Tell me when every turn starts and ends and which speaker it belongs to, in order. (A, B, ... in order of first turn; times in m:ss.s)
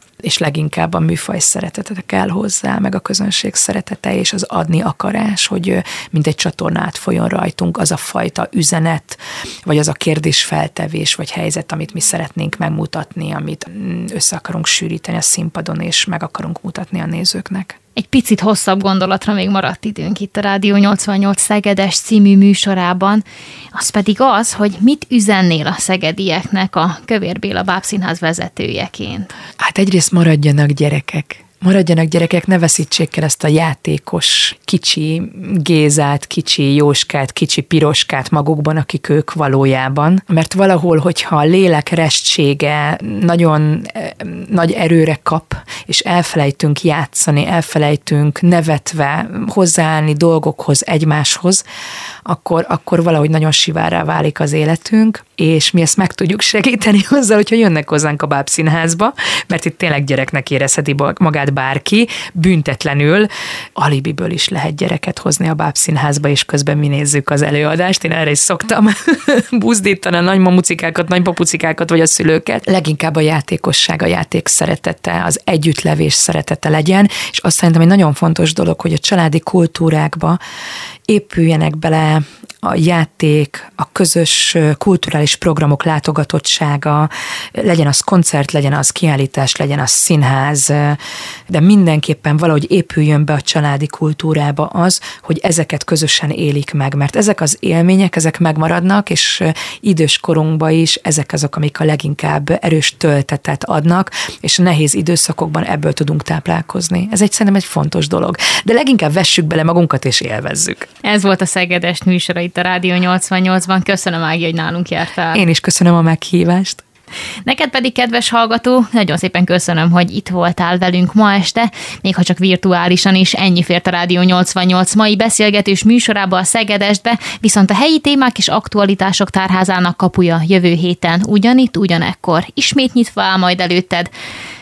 0:00.2-0:17.8 A
0:18.0-0:29.3 B
0:29.6-0:51.6 A
0:52.2-1:20.4 A
1:21.1-1:50.9 A
1:51.0-1:55.4 B
1:55.3-1:56.8 A
1:57.4-2:14.1 B